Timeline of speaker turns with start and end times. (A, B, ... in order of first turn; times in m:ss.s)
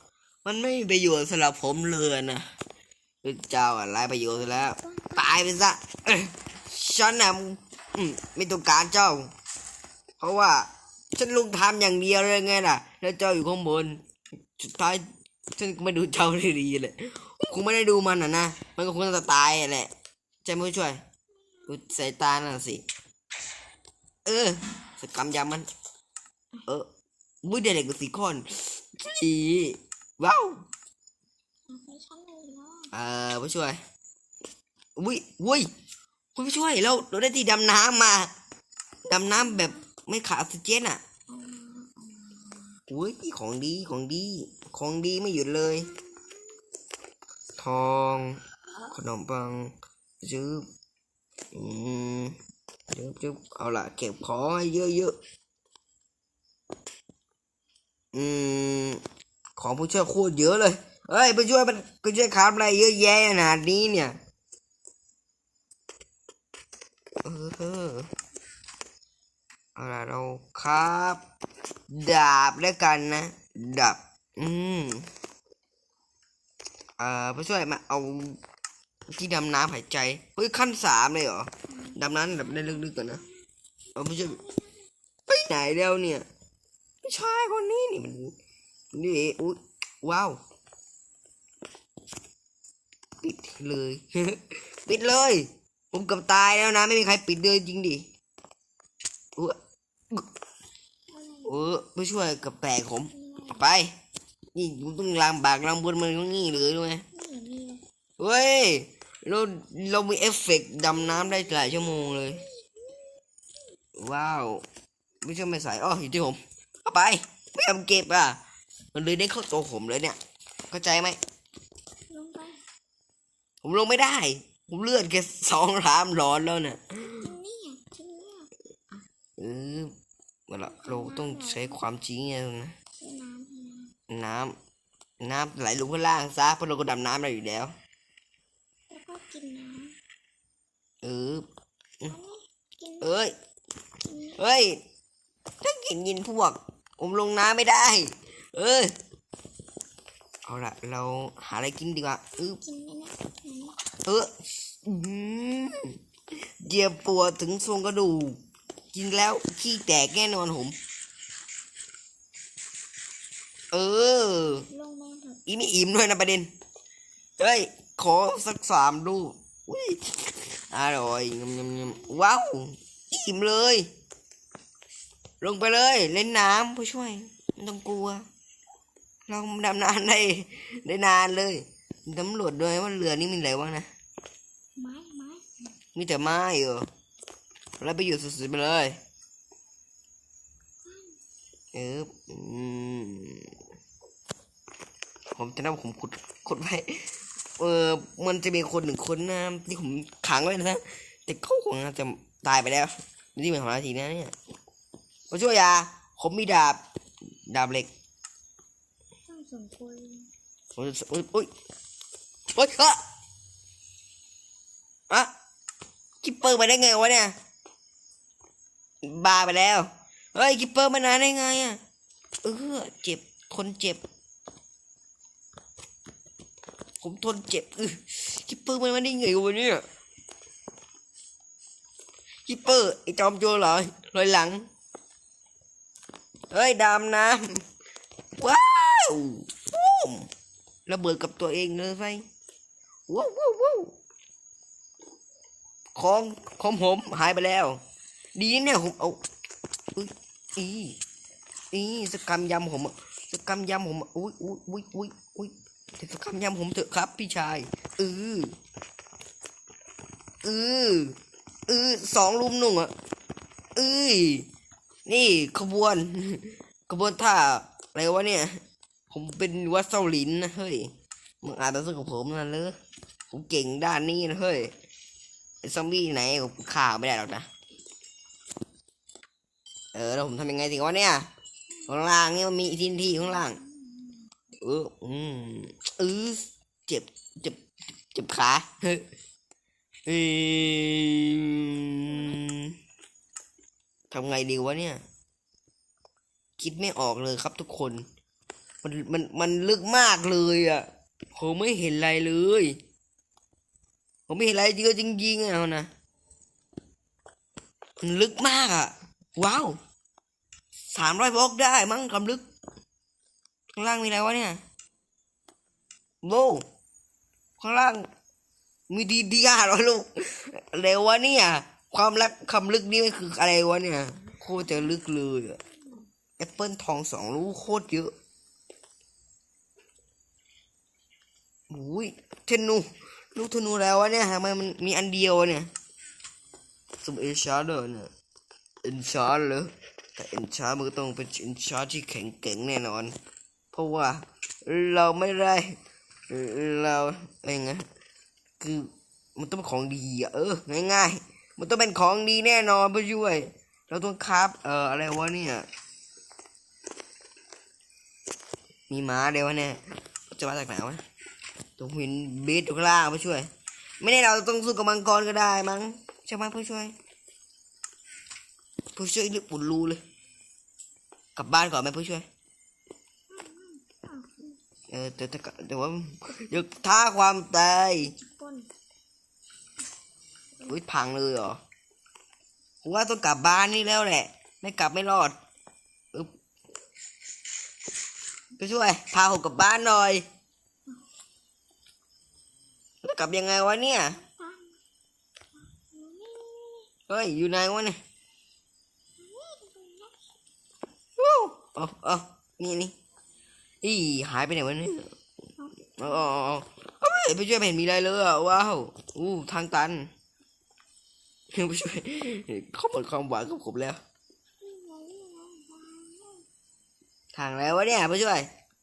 0:00.4-0:02.5 A
0:03.2-0:09.3 A
0:04.1-0:05.6 B
0:10.2-0:14.0 A
0:14.6-0:19.9 A
0:20.4-0:21.0 A
0:21.7-0:22.8 A
0:24.2-0:25.7 A
0:27.4-0:30.7 A
0:31.7-0:32.9 B
0:32.9-0:33.8 A
0:35.0-0:35.7 A
0:36.4-0:38.3 A
0:39.1-0:41.0 A
0:39.3-0:39.8 B
0:41.3-0:42.8 B
0:42.9-0:45.9 A
0:45.9-0:46.5 B
0:47.6-0:50.7 A
0:51.5-0:52.4 A
0:52.9-0:55.2 A
0:58.1-0:59.0 A
0:59.6-1:04.2 A
1:07.2-1:08.1 A
1:09.8-1:11.2 A
1:11.9-1:15.1 A
1:17.0-1:18.4 A
1:19.1-1:23.2 A
1:21.7-1:23.4 B
1:24.0-1:24.4 A
1:24.0-1:24.9 B
1:25.3-1:26.3 A
1:27.0-1:28.4 A
1:28.9-1:30.4 A
1:33.2-1:38.1 A
1:41.1-1:41.6 B
1:41.5-1:44.0 A
1:43.1-1:43.6 B
1:44.5-1:47.0 A
1:47.1-1:47.8 B
1:48.2-1:52.4 A
1:50.9-1:53.1 B
1:54.0-1:54.6 A
1:55.2-1:58.4 A
1:58.9-2:00.2 A
2:00.7-2:01.2 A
2:02.1-2:02.6 B
2:03.6-2:07.3 A
2:07.0-2:08.5 B
2:09.4-2:09.9 A
2:10.5-2:12.8 A
2:10.7-2:11.8 B
2:13.0-2:13.9 B
2:14.1-2:14.6 A
2:15.2-2:17.7 A
2:18.9-2:20.0 B
2:21.0-2:21.5 A
2:22.1-2:23.1 B
2:23.0-2:23.3 A
2:24.0-2:24.4 B
2:24.4-2:24.8 A
2:25.6-2:28.9 A
2:30.5-2:32.6 A
2:32.4-2:33.8 B
2:34.1-2:38.4 A
2:38.9-2:40.8 A
2:43.7-2:44.7 A
2:44.7-2:45.4 B
2:45.5-2:46.5 A
2:47.4-2:53.9 A
2:51.8-2:52.3 B
2:55.4-2:58.3 A
2:59.3-3:03.9 A
3:04.8-3:05.8 B
3:06.0-3:06.9 A
3:07.8-3:09.0 A
3:10.8-3:11.2 B
3:11.7-3:13.6 A
3:15.3-3:24.4 A
3:25.3-3:26.8 A
3:27.5-3:27.9 A
3:29.3-3:30.3 B
3:30.8-3:31.5 A
3:32.5-3:33.0 A
3:36.2-3:37.4 A
3:39.0-3:41.8 A
3:42.4-3:44.0 A
3:47.0-3:49.9 A
3:52.5-3:54.7 A
3:56.5-3:57.6 A
3:58.4-4:00.3 A
4:00.9-4:02.3 A
4:03.1-4:04.0 A
4:06.0-4:07.8 A
4:08.4-4:09.2 A
4:10.0-4:11.0 A
4:11.7-4:18.6 A
4:20.4-4:22.9 A
4:23.8-4:24.5 A
4:25.1-4:32.8 A
4:33.3-4:34.7 A
4:35.6-4:37.5 A
4:39.9-4:41.3 A
4:41.9-4:43.6 A
4:43.0-4:44.3 B
4:44.6-4:47.6 A
4:48.1-4:49.0 A
4:50.1-4:52.8 A
4:52.1-4:52.4 B
4:54.1-4:55.0 A
4:56.6-4:58.1 A
4:58.8-5:02.8 A
5:04.3-5:05.9 A
5:08.0-5:09.8 A
5:10.9-5:12.5 A
5:13.7-5:14.6 A
5:16.2-5:16.7 A
5:17.6-5:18.1 A
5:18.9-5:25.6 A
5:26.4-5:28.1 A
5:31.7-5:35.7 A
5:37.0-5:38.1 A
5:38.8-5:43.2 A
5:43.7-5:45.8 A
5:46.3-5:47.9 A
5:48.6-5:55.7 A
5:58.9-6:01.0 A
6:01.8-6:03.5 A
6:04.0-6:06.9 A
6:09.0-6:10.0 A
6:11.4-6:12.3 A
6:13.3-6:14.6 B
6:14.9-6:18.1 A
6:18.0-6:18.7 B
6:20.7-6:21.6 A
6:22.8-6:25.4 A
6:28.6-6:30.3 A
6:33.0-6:34.2 A
6:34.2-6:34.8 B
6:35.8-6:36.9 B
6:37.1-6:38.0 A
6:39.2-6:40.3 B
6:41.2-6:42.9 A
6:43.8-6:45.1 A
6:45.6-6:46.2 B
6:46.0-6:50.1 A
6:51.5-6:54.0 A
6:54.6-6:56.5 B
6:57.3-6:58.5 A